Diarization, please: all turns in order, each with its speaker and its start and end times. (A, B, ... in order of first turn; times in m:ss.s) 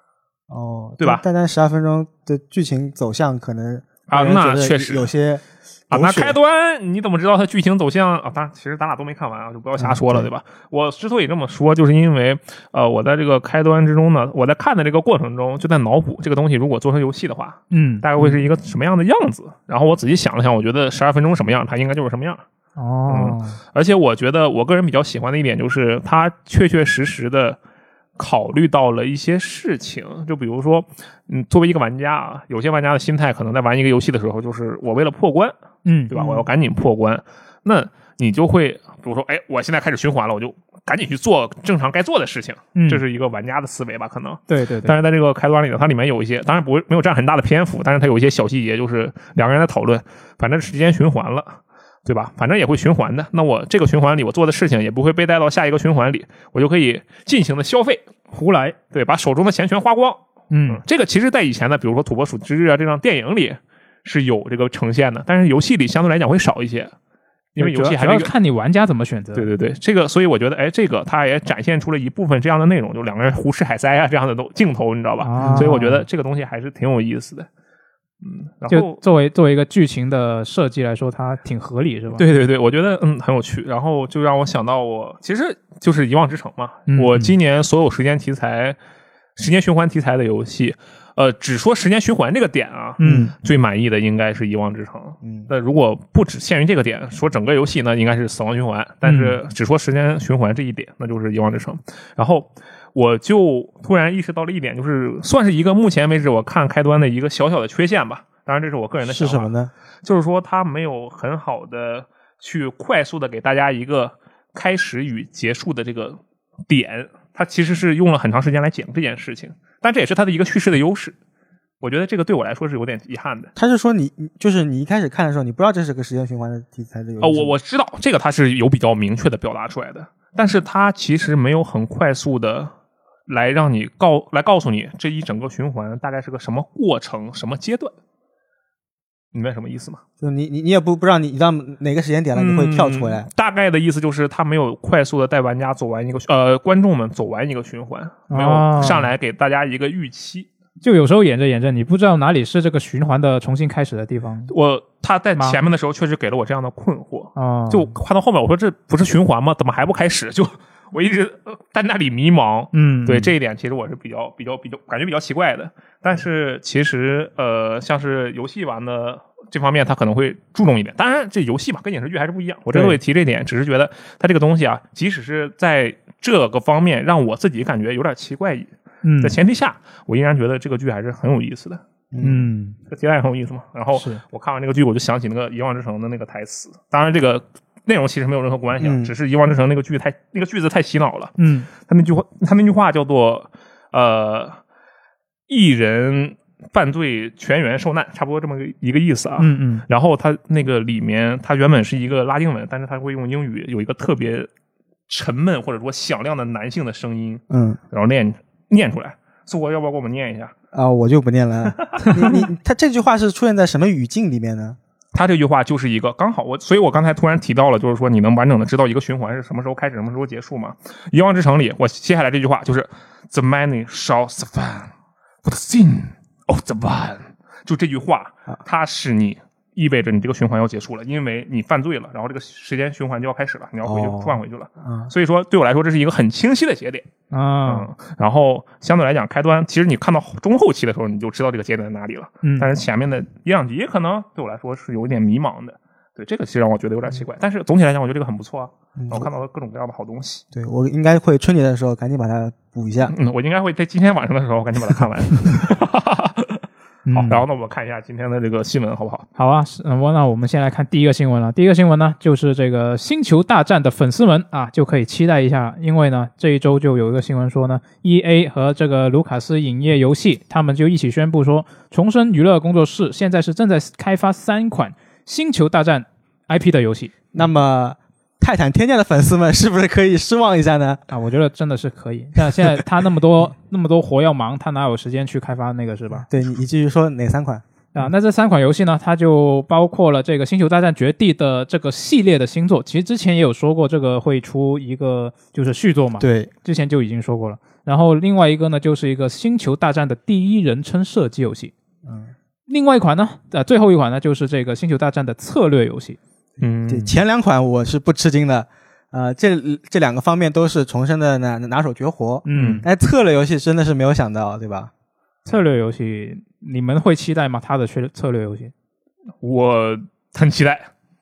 0:00.5-0:06.4 A
0:04.1-0:05.1 B
0:05.9-0:22.4 B
0:09.8-0:10.3 A
0:17.7-0:18.0 C
0:22.8-0:23.6 C
0:23.1-0:27.6 B
0:28.2-0:35.5 B
0:35.8-0:36.2 C
0:36.1-0:58.0 B
0:42.7-0:43.0 C
0:44.5-0:45.0 C
0:58.3-0:58.8 C
0:58.9-1:06.9 B
1:00.5-1:00.8 C
1:07.5-1:08.3 B
1:07.6-1:09.5 C
1:09.3-1:17.5 B
1:15.2-1:16.0 C
1:15.4-1:15.8 A
1:18.2-1:19.0 B
1:18.7-1:22.2 C
1:22.2-1:28.8 B
1:26.9-1:27.3 C
1:29.4-1:49.5 B
1:33.0-1:33.3 C
1:33.0-1:33.3 A
1:35.2-1:35.5 A
1:39.0-1:39.4 C
1:49.0-1:49.7 A
1:50.0-2:01.1 B
2:01.8-2:03.5 B
2:03.6-2:07.5 A
2:07.2-2:12.7 B
2:13.3-2:17.9 B
2:19.3-2:20.0 B
2:20.2-2:23.3 A
2:22.3-2:30.5 B
2:28.3-2:29.1 C
2:30.8-2:34.5 C
2:34.5-2:58.7 B
2:37.4-2:37.9 C
2:42.7-2:43.3 C
2:52.7-2:53.0 C
2:59.0-2:59.4 C
2:59.2-3:01.8 B
3:02.1-3:02.5 A
3:02.2-3:02.8 C
3:02.9-3:14.6 B
3:03.9-3:04.2 C
3:08.8-3:09.1 A
3:11.4-3:11.7 C
3:15.5-3:24.5 B
3:19.4-3:19.8 C
3:25.1-3:30.5 B
3:27.5-3:27.8 A
3:30.7-3:34.8 A
3:31.8-3:32.4 B
3:35.1-3:44.9 B
3:45.4-3:57.1 B
3:53.8-3:55.1 A
3:57.3-3:57.9 C
3:57.6-4:10.4 B
4:02.4-4:02.7 C
4:09.0-4:09.3 A
4:10.5-4:13.1 A
4:13.1-4:19.3 B
4:17.0-4:17.4 C
4:19.4-4:37.1 C
4:37.3-4:41.0 A
4:41.1-4:46.2 C
4:46.3-4:47.6 A
4:47.9-5:01.7 C
4:56.2-4:56.5 A
5:02.0-5:02.3 A
5:02.7-5:06.2 C
5:06.6-5:07.1 B
5:06.9-5:14.9 A
5:12.4-5:12.8 C
5:12.5-5:12.8 B
5:15.4-5:18.7 C
5:19.4-5:20.9 B